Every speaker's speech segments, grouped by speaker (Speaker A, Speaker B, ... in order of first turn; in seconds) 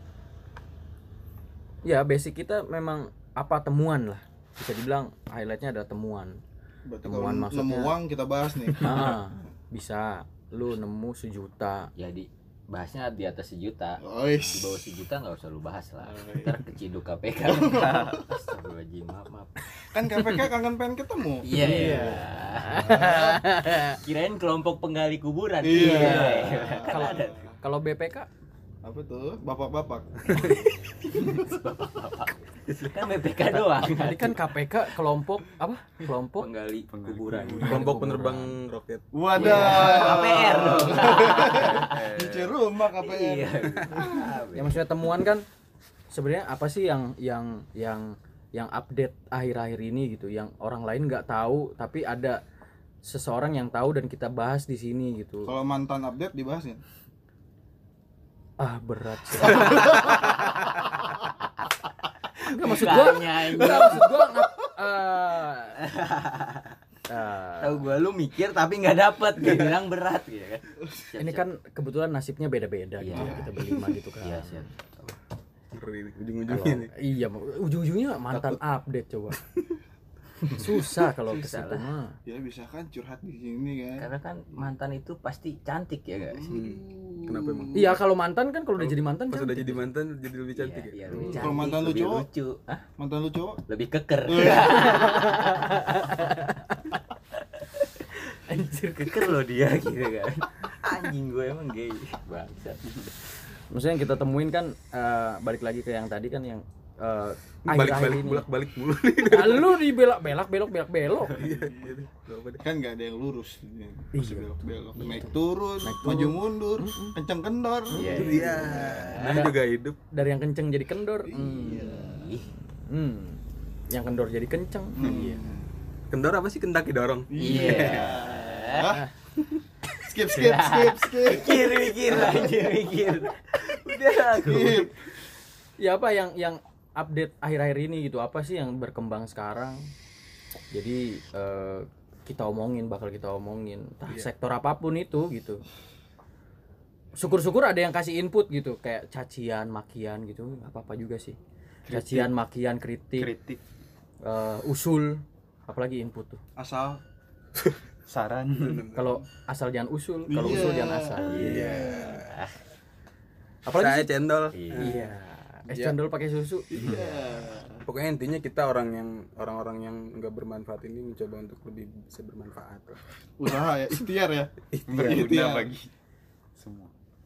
Speaker A: 1.9-6.4, 7.0-8.0, 8.8-11.9, 21.6-24.0, 25.7-28.3, 33.6-36.5, 37.6-38.5, 39.4-40.0, 44.5-45.4, 46.1-52.4, 53.0-55.5, 58.6-60.3, 62.4-65.8, 67.1-68.0, 71.2-74.7, 76.4-79.4, 80.4-82.2, 87.7-89.9, 94.8-97.0, 98.5-99.3, 103.7-108.5, 109.2-111.4, 114.1-117.2, 118.0-118.5, 119.2-119.5, 120.1-122.0, 122.8-123.4, 123.9-125.4, 135.8-139.9, 140.7-145.6, 147.2-151.4, 151.9-153.3, 154.2-156.4, 158.9-161.7, 163.7-164.1, 164.8-167.0
Speaker B: 6.9-9.2, 14.0-14.8, 16.1-16.6, 17.5-18.2, 19.9-22.2, 22.8-23.4, 25.6-27.5, 28.8-30.6, 39.1-44.3, 55.5-56.8, 63.6-64.5, 73.1-73.5, 82.3-84.1, 86.3-87.9, 91.3-92.3, 93.0-93.6, 94.3-95.0, 111.5-111.9, 112.6-119.2, 121.2-122.3, 125.0-125.7, 127.3-129.1, 130.0-132.7, 134.4-135.0, 156.6-157.0, 160.3-162.2, 166.7-167.8, 173.4-175.7
Speaker C: 8.8-9.1, 37.6-39.9, 59.7-60.4, 69.4-69.7, 75.7-76.9, 78.3-78.6, 86.5-88.0, 88.8-91.4, 107.7-109.8, 111.3-112.6, 118.1-120.0, 126.1-128.2, 158.6-159.2, 161.3-162.4, 163.7-165.2, 165.7-166.0, 167.9-173.0, 174.7-175.5
Speaker D: 12.0-19.6, 21.4-23.0, 23.9-27.4, 30.4-34.4, 36.4-37.9, 39.4-42.1, 43.0-44.8, 62.4-64.1, 65.8-66.8, 67.6-71.5, 73.0-74.7, 81.2-81.9, 84.0-86.5, 90.6-92.8, 93.7-96.5, 97.6-98.4, 99.0-103.1, 117.9-119.5, 121.3-122.5, 127.4-129.0, 130.3-134.9, 161.2-162.6, 164.5-165.1
Speaker E: 36.9-37.7, 41.0-42.5, 151.9-152.3, 153.2-153.6, 158.1-158.8, 174.9-175.9, 176.6-176.9